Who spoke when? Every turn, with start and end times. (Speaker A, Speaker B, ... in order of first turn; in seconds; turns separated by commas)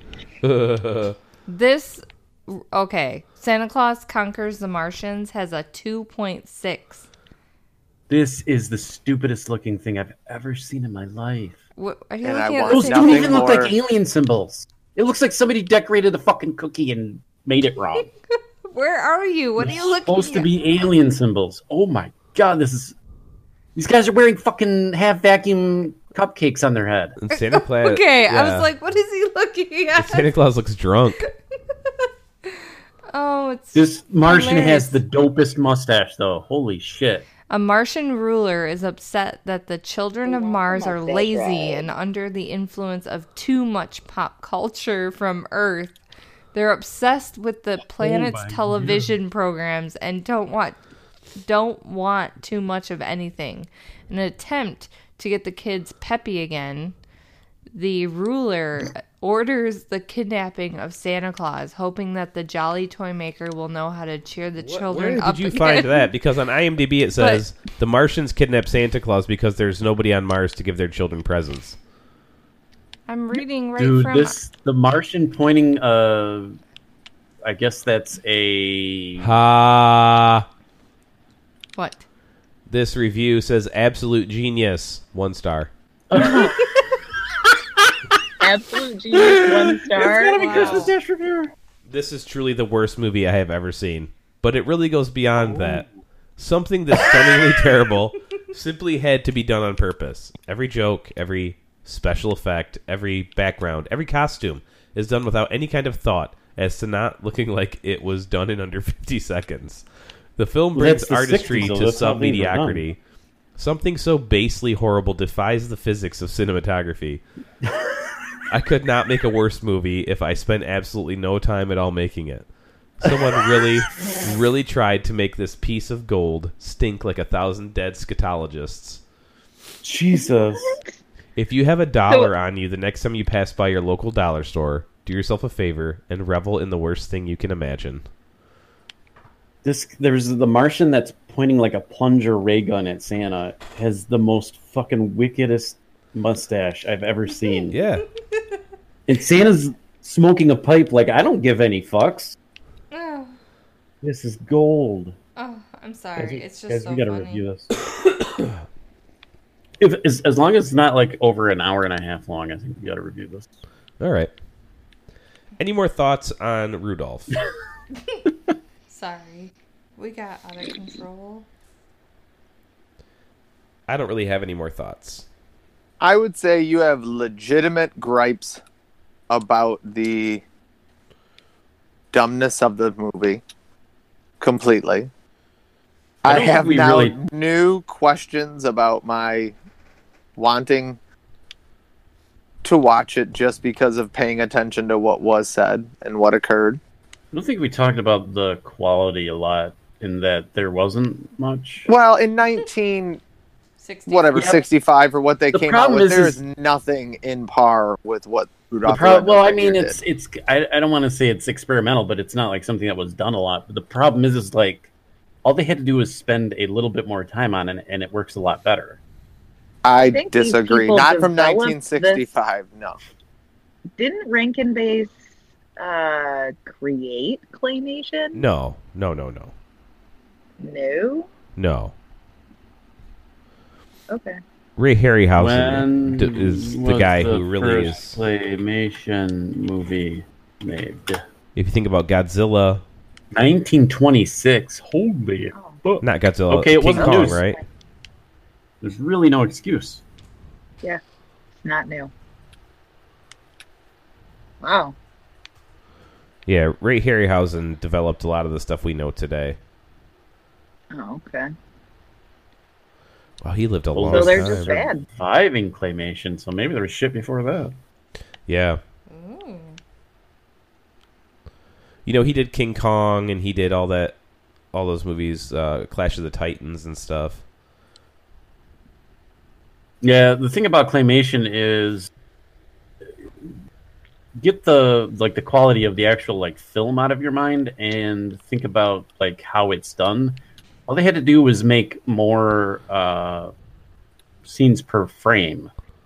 Speaker A: 0.4-1.2, Speaker B: 1.5-7.0, Speaker C: 8.1-11.6, Speaker B: 11.8-13.7, Speaker D: 12.2-13.8, Speaker C: 12.7-18.1, Speaker B: 18.7-20.5, Speaker C: 19.6-22.9, Speaker C: 23.8-27.2, Speaker A: 27.2-28.7, Speaker B: 27.3-30.3, Speaker A: 30.0-31.2, Speaker B: 33.1-35.0, Speaker C: 33.7-37.3, Speaker B: 37.5-46.0, Speaker E: 40.2-41.9, Speaker B: 46.5-50.8, Speaker C: 47.9-49.1, Speaker B: 51.4-57.0, Speaker B: 57.7-66.1, Speaker A: 64.6-71.8, Speaker B: 67.2-67.5, Speaker B: 73.1-74.4, Speaker C: 73.8-76.6, Speaker C: 77.4-79.3, Speaker A: 79.2-80.5, Speaker B: 81.8-82.0, Speaker A: 82.7-85.7, Speaker C: 86.1-86.8, Speaker B: 86.2-86.8, Speaker E: 88.4-90.9, Speaker C: 89.1-91.5, Speaker B: 90.4-90.9, Speaker A: 91.9-95.9, Speaker C: 95.3-95.9, Speaker A: 96.4-109.8, Speaker A: 110.4-113.0, Speaker C: 110.8-112.8, Speaker A: 113.6-117.2, Speaker A: 118.5-122.5, Speaker A: 123.0-129.0, Speaker C: 129.8-130.8, Speaker A: 131.4-138.1, Speaker C: 139.6-147.8, Speaker A: 147.7-148.1, Speaker C: 149.1-152.4, Speaker B: 152.9-153.4, Speaker C: 154.0-155.2, Speaker B: 155.4-157.4, Speaker C: 156.2-157.7, Speaker C: 159.8-163.5, Speaker A: 164.0-164.3, Speaker A: 165.6-167.4, Speaker B: 168.9-171.5, Speaker A: 173.9-175.3, Speaker D: 176.0-178.6, Speaker D: 179.3-180.4, Speaker D: 182.1-183.4, Speaker D: 184.4-185.1, Speaker D: 186.2-189.6, Speaker C: 186.3-187.2, Speaker D: 190.4-191.0, Speaker D: 192.6-196.8, Speaker C: 197.3-201.9, Speaker D: 201.9-203.2, Speaker B: 203.8-204.5, Speaker D: 204.1-210.0, Speaker C: 204.3-204.6, Speaker C: 205.5-206.4, Speaker C: 208.8-214.9, Speaker C: 215.4-219.0, Speaker D: 219.8-223.0, Speaker E: 220.1-222.3, Speaker E: 224.0-225.2, Speaker E: 225.8-228.4, Speaker A: 228.3-229.5, Speaker E: 230.6-231.3, Speaker A: 231.6-231.9, Speaker E: 234.1-234.4, Speaker A: 234.8-238.2, Speaker C: 235.4-241.2, Speaker A: 241.6-242.8, Speaker C: 243.3-247.5, Speaker E: 245.6-245.8, Speaker A: 246.0-247.6, Speaker E: 246.9-247.6, Speaker C: 248.8-250.0, Speaker E: 251.6-252.1, Speaker E: 254.6-254.9, Speaker A: 256.5-259.6, Speaker E: 260.9-261.5, Speaker A: 263.4-264.7, Speaker C: 263.9-267.7, Speaker E: 264.1-265.0, Speaker A: 268.5-268.8, Speaker B: 269.1-269.8, Speaker A: 272.1-274.2, Speaker A: 274.7-277.4, Speaker C: 280.0-282.1, Speaker C: 284.4-293.5, Speaker C: 294.4-295.7